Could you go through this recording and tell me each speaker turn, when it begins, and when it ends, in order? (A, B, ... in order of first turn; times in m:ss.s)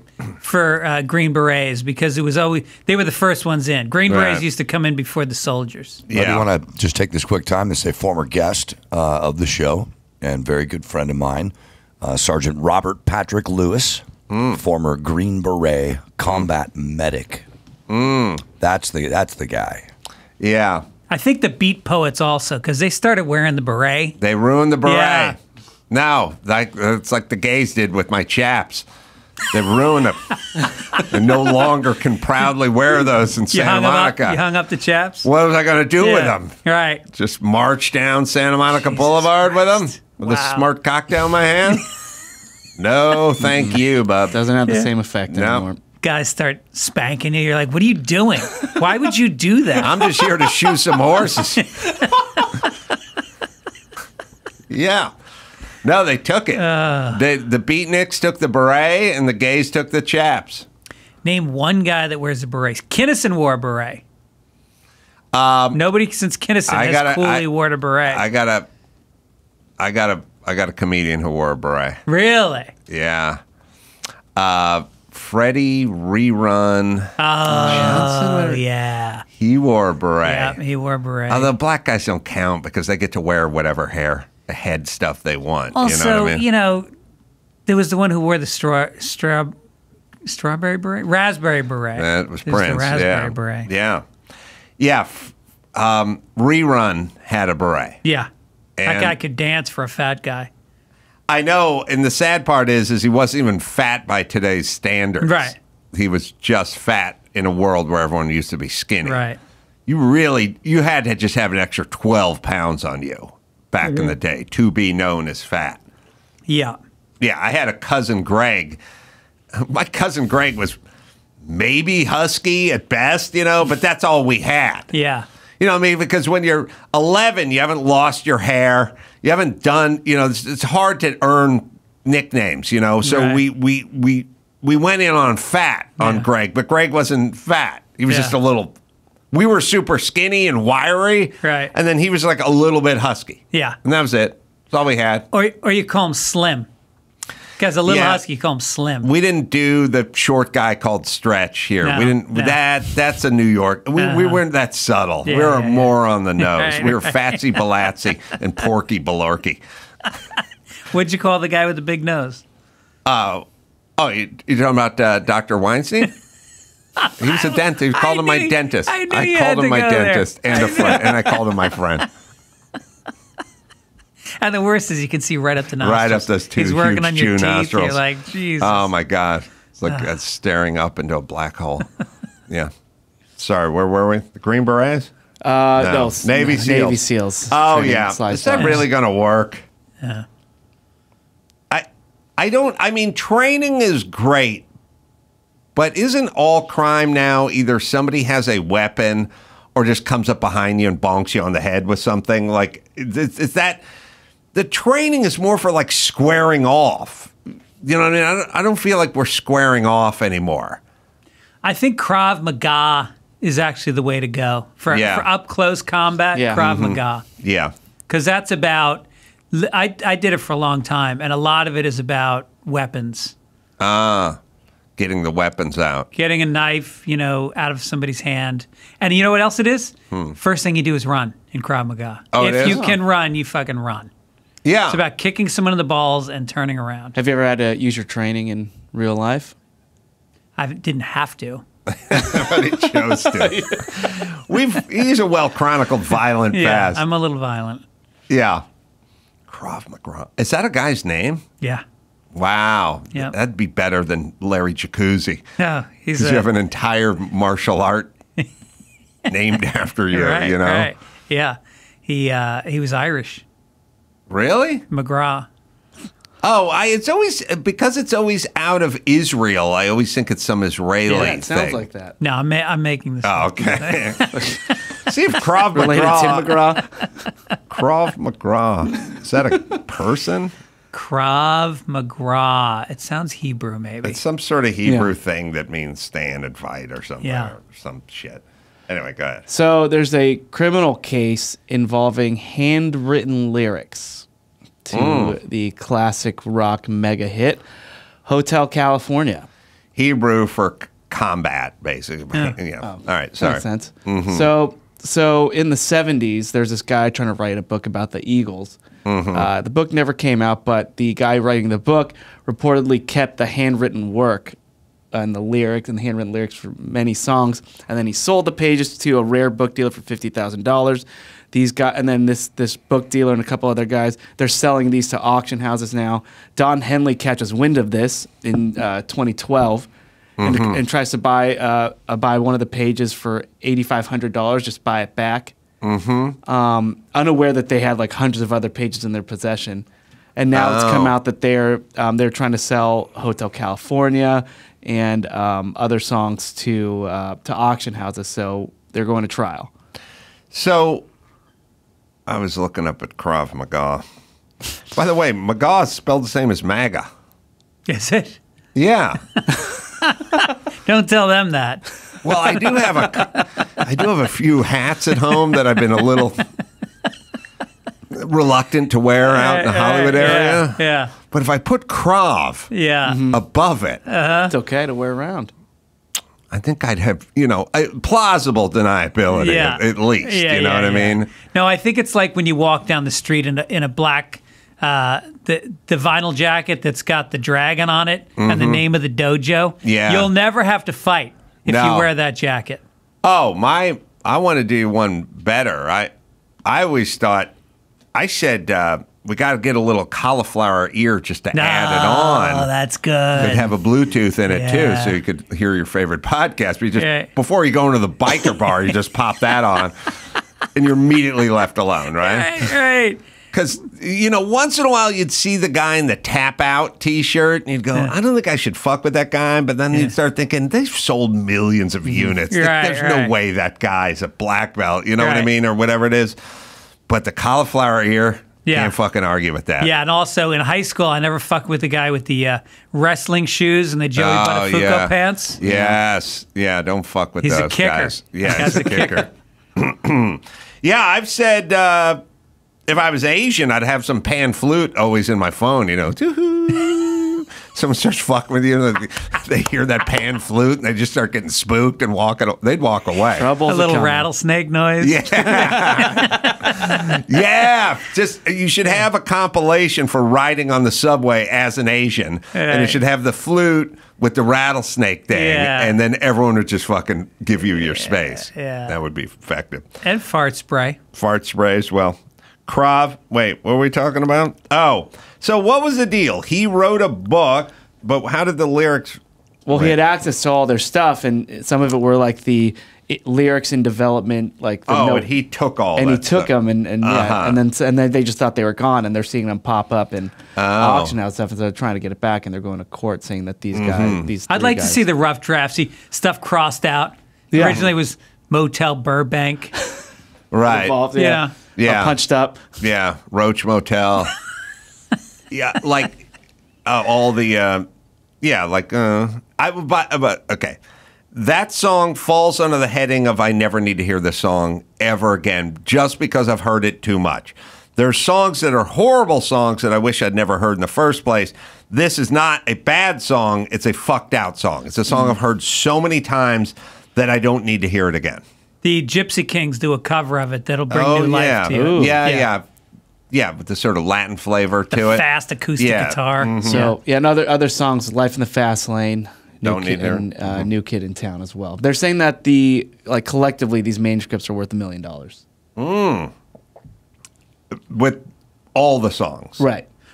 0:00.4-0:06.0 A
0:04.1-0:04.4 B
0:06.1-0:06.4 B
0:06.1-0:17.4 C
0:14.3-0:14.6 B
0:17.9-0:18.4 B
0:18.6-0:19.9 C
0:20.4-0:20.8 B
0:21.1-0:24.2 A
0:24.2-0:25.3 B
0:24.8-0:25.4 A
0:25.9-0:28.8 B
0:29.5-0:34.4 B
0:33.5-0:35.3 A
0:35.2-0:36.5 B
0:36.0-0:37.0 A
0:37.1-0:41.9 B
0:38.9-0:40.6 A
0:42.8-0:44.4 B
0:44.3-0:45.8 D
0:45.3-0:45.6 B
0:46.0-0:50.0 A
0:49.8-0:51.7 B
0:54.7-0:55.1 B
0:55.8-1:00.6 B
0:56.6-0:57.2 A
1:01.2-1:04.0 A
1:05.3-1:05.8 B
1:05.7-1:08.2 A
1:06.7-1:07.4 B
1:08.1-1:08.6 B
1:09.8-1:12.0 B
1:12.1-1:12.7 A
1:12.9-1:13.4 B
1:14.4-1:18.6 B
1:17.2-1:19.2 A
1:17.8-1:18.0 D
1:19.4-1:20.6 B
1:20.2-1:21.5 A
1:21.3-1:26.4 B
1:25.8-1:26.9 A
1:27.6-1:29.5 A
1:30.2-1:33.7 A
1:32.0-1:34.0 B
1:34.8-1:38.0 B
1:38.0-1:38.3 A
1:38.8-1:39.1 B
1:38.8-1:40.5 A
1:41.3-1:49.2 B
1:45.2-1:45.6 A
1:49.0-1:49.4 A
1:49.9-1:55.8 B
1:53.8-1:54.1 A
1:56.5-1:56.8 A
1:57.2-1:58.8 B
1:59.5-2:00.8 B
2:01.4-2:04.9 B
2:04.9-2:05.2 A
2:05.6-2:18.7 B
2:13.0-2:13.4 A
2:16.0-2:16.3 A
2:18.1-2:18.4 A
2:19.3-2:25.2 B
2:21.4-2:21.7 A
2:23.5-2:23.8 A
2:25.3-2:26.7 A
2:27.6-2:29.1 A
2:27.9-2:28.2 B
2:29.0-2:39.6 B
2:31.8-2:32.6 A
2:34.0-2:34.4 A
2:35.2-2:37.4 A
2:40.9-2:42.4 A
2:43.0-2:43.4 B
2:44.0-2:46.1 B
2:47.0-2:51.4 A
2:47.2-2:52.1 B
2:54.4-2:58.9 A
2:55.8-2:58.0 B
2:58.6-3:01.9 B
3:03.4-3:05.1 B
3:05.4-3:08.8 D
3:05.8-3:09.6 B
3:08.6-3:08.9 A
3:10.0-3:10.2 A
3:12.4-3:14.6 B
3:15.8-3:23.8 B
3:24.5-3:30.8 B
3:31.6-3:37.2 A
3:34.9-3:35.3 B
3:36.4-3:36.6 D
3:36.5-3:37.7 B
3:38.1-3:43.3 A
3:43.8-3:44.4 B
3:45.0-3:46.1 B
3:46.1-3:54.1 A
3:50.1-3:50.4 B
3:52.3-3:52.9 B
3:54.6-3:55.0 B
3:54.9-3:57.2 A
3:57.1-3:59.5 D
4:00.6-4:01.6 A
4:01.9-4:07.0 B
4:03.4-4:03.8 D
4:06.5-4:07.8 A
4:08.3-4:08.6 B
4:09.5-4:11.4 B
4:12.3-4:15.4 B
4:15.6-4:16.5 A
4:16.2-4:18.1 B
4:19.3-4:20.9 B
4:20.1-4:23.4 A
4:24.3-4:24.8 B
4:24.9-4:25.5 A
4:26.4-4:31.8 B
4:31.1-4:32.2 D
4:32.2-4:34.8 A
4:33.2-4:34.5 B
4:35.0-4:36.7 B
4:35.7-4:36.9 D
4:37.7-4:40.5 B
4:40.9-4:44.2 A
4:44.0-4:49.4 B
4:44.8-4:45.1 D
4:47.2-4:47.5 A
4:49.5-4:54.2 D
4:54.8-4:57.6 D
4:54.9-4:55.4 B
4:58.2-4:59.5 D
5:00.0-5:04.5 B
5:02.8-5:08.8 D
5:09.0-5:09.5 B
5:09.3-5:14.6 D
5:15.1-5:29.9 D
5:30.4-5:30.8 B
5:30.4-5:35.5 D
5:35.8-5:36.4 B
5:36.5-5:49.7 D
5:40.5-5:41.1 B
5:50.5-5:51.0 B
5:52.3-5:54.0 B
5:54.9-5:57.1 B
5:57.9-5:58.4 A
5:58.8-5:59.2 B
6:00.0-6:01.9 A
6:02.2-6:06.5 B
6:02.7-6:03.5 A
6:08.1-6:12.7 B
6:09.3-6:11.1 A
6:12.7-6:13.2 A
6:13.0-6:13.4 D
6:13.3-6:14.0 B
6:14.0-6:14.5 A
6:14.5-6:15.5 D
6:16.5-6:21.3 B
6:19.3-6:32.8 A
6:28.4-6:28.8 B
6:29.8-6:30.3 B
6:31.7-6:32.1 B
6:33.2-6:36.1 B
6:36.6-6:37.5 B
6:38.1-6:42.7 B
6:41.5-6:43.7 A
6:43.4-6:50.1 B
6:44.5-6:45.2 A
6:47.0-6:47.3 A
6:50.7-6:52.7 B
6:52.2-6:53.2 A
6:53.5-7:06.4 B
7:02.0-7:03.3 A
7:05.2-7:05.5 A
7:07.1-7:09.9 B
7:08.6-7:08.9 A
7:09.8-7:15.6 A
7:14.2-7:22.2 B
7:15.6-7:16.0 D
7:17.4-7:19.2 A
7:22.9-7:33.5 B
7:33.4-7:34.3 D
7:33.6-7:37.2 A
7:35.0-7:49.9 B
7:42.5-7:43.0 A
7:45.3-7:46.0 A
7:48.0-7:48.9 A
7:50.0-7:51.0 A
7:51.1-7:59.2 B
7:59.6-8:05.3 D
7:59.7-8:00.0 B
8:04.9-8:06.5 B
8:06.0-8:15.0 D
8:07.0-8:07.6 B
8:10.6-8:11.2 B
8:13.7-8:14.3 B
8:14.5-8:19.8 A
8:17.5-8:17.8 D
8:17.6-8:17.9 B
8:20.5-8:21.0 B
8:20.7-8:22.6 D
8:21.2-8:21.5 A
8:21.8-8:22.2 B
8:22.8-8:24.3 B
8:25.5-8:26.3 B
8:26.9-8:27.9 B
8:28.4-8:30.8 B
8:31.3-8:48.4 B
8:48.8-8:52.5 A
8:50.9-8:52.6 B
8:51.7-8:52.2 D
8:53.3-8:55.2 B
8:54.9-8:56.9 A
8:55.8-8:56.9 B
8:56.6-9:05.4 D
8:59.6-9:00.7 B
9:05.8-9:06.3 B
9:07.9-9:09.6 B
9:09.6-9:09.8 D